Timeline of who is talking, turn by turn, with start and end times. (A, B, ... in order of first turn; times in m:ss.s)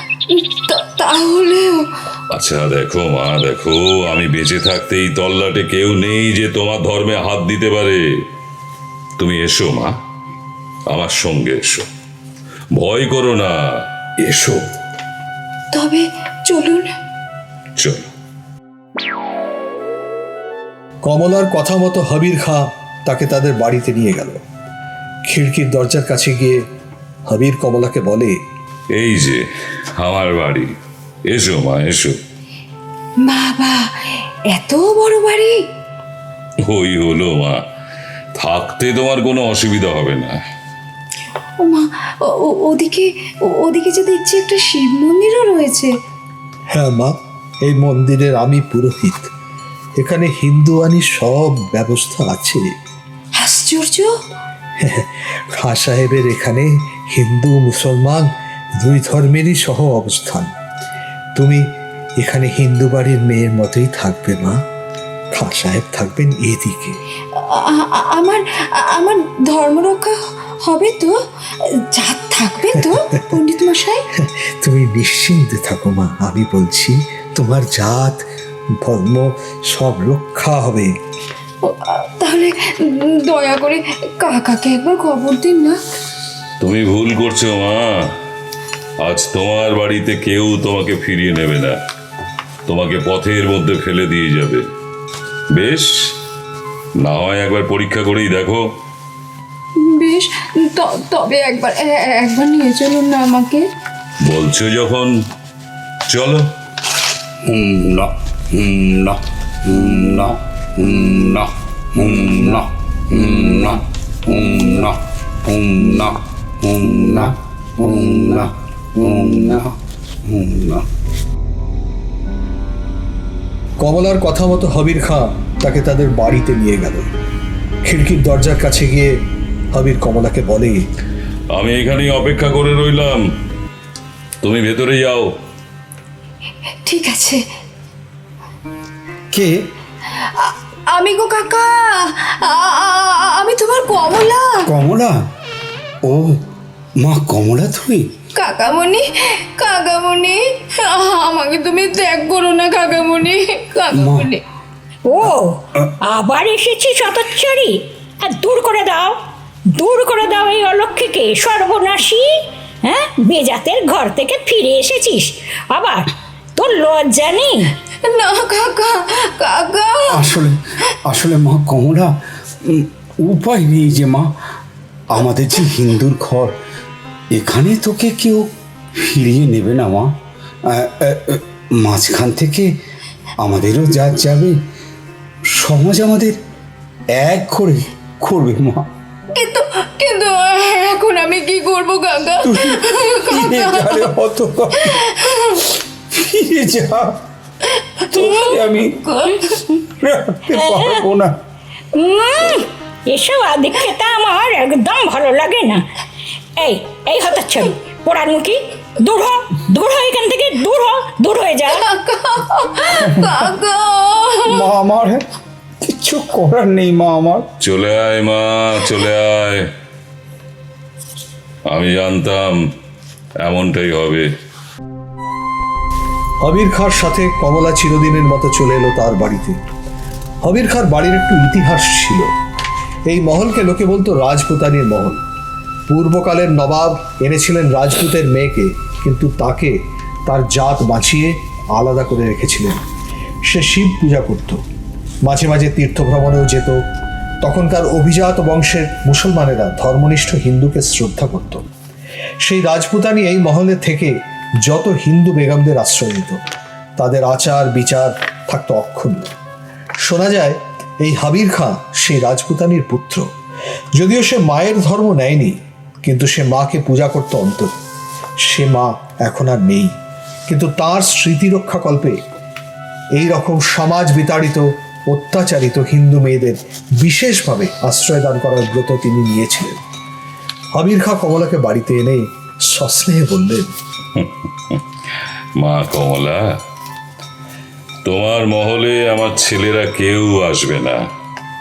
0:00.3-0:01.9 A
0:02.3-0:08.0 B
0:09.2-0:09.9 B
0:10.9-0:11.9 B
0:12.8-0:13.6 B
0:14.2-0:14.6 B
0:15.7-0:16.9 A
0:17.8-0:18.1 B
0:21.0-0:24.4 C
0:25.3-0:26.6 C
0:27.3-0:28.4 C
0:29.0-0:29.4 B
0:30.0-0:30.7 B
0:31.3-0:32.2 B
0:33.2-0:35.6 A
0:36.7-0:37.6 B
0:38.4-0:40.4 B
0:41.6-0:45.9 A
0:46.7-0:49.3 C
0:50.0-0:52.6 C
0:53.4-0:54.1 A
0:54.8-0:58.3 C
0:58.8-1:00.5 C
1:01.4-1:01.6 C
1:02.2-1:04.6 C
1:05.3-1:07.0 C
1:07.3-1:11.1 A
1:11.6-1:14.0 A
1:14.2-1:18.2 C
1:18.8-1:20.9 C
1:21.6-1:25.8 A
1:26.6-1:28.1 B
1:29.0-1:31.8 B
1:32.7-1:34.6 B
1:35.5-1:35.9 B
1:37.0-1:38.6 B
1:39.9-1:43.6 A
1:44.2-1:45.1 B
1:46.1-1:46.5 B
1:47.4-2:00.9 D
2:03.8-2:07.1 C
2:07.9-2:09.1 C
2:09.7-2:10.8 C
2:11.6-2:13.2 B
2:14.4-2:15.3 B
2:16.9-2:17.4 A
2:20.2-2:24.7 A
2:24.7-2:25.2 D
2:26.1-2:26.3 D
2:27.0-2:28.1 D
2:28.4-2:34.4 A
2:34.0-2:34.3 D
2:35.1-2:39.2 E
2:39.7-2:42.3 E
2:42.8-2:47.7 E
2:48.0-2:50.3 A
2:50.1-2:54.3 D
2:55.1-2:56.5 D
2:57.3-3:00.1 D
3:00.7-3:02.7 D
3:03.4-3:04.6 D
3:05.5-3:06.4 D
3:07.2-3:08.9 D
3:09.3-3:14.0 A
3:12.4-3:15.2 D
3:14.8-3:15.7 A
3:16.1-3:17.2 D
3:17.8-3:19.5 A
3:18.1-3:19.0 D
3:20.0-3:21.4 D
3:20.5-3:21.0 E
3:21.9-3:25.9 E
3:26.6-3:31.8 E
3:31.7-3:34.7 A
3:33.0-3:33.4 D
3:34.5-3:35.2 D
3:35.8-3:37.4 D
3:37.6-3:39.7 B
3:41.7-3:42.6 B
3:43.4-3:44.3 B
3:46.4-3:49.6 C
3:50.4-3:52.3 C
3:53.1-3:55.2 C
3:55.9-4:02.8 C
4:03.5-4:04.6 C
4:05.2-4:06.8 C
4:07.4-4:11.6 C
4:12.4-4:16.4 C
4:17.0-4:19.3 C
4:20.0-4:23.3 C
4:24.0-4:27.7 C
4:28.4-4:30.0 C
4:30.5-4:32.2 C
4:33.2-4:39.8 C
4:40.8-4:43.7 C
4:44.2-4:44.8 B
4:45.6-4:46.4 B
4:48.0-4:51.0 B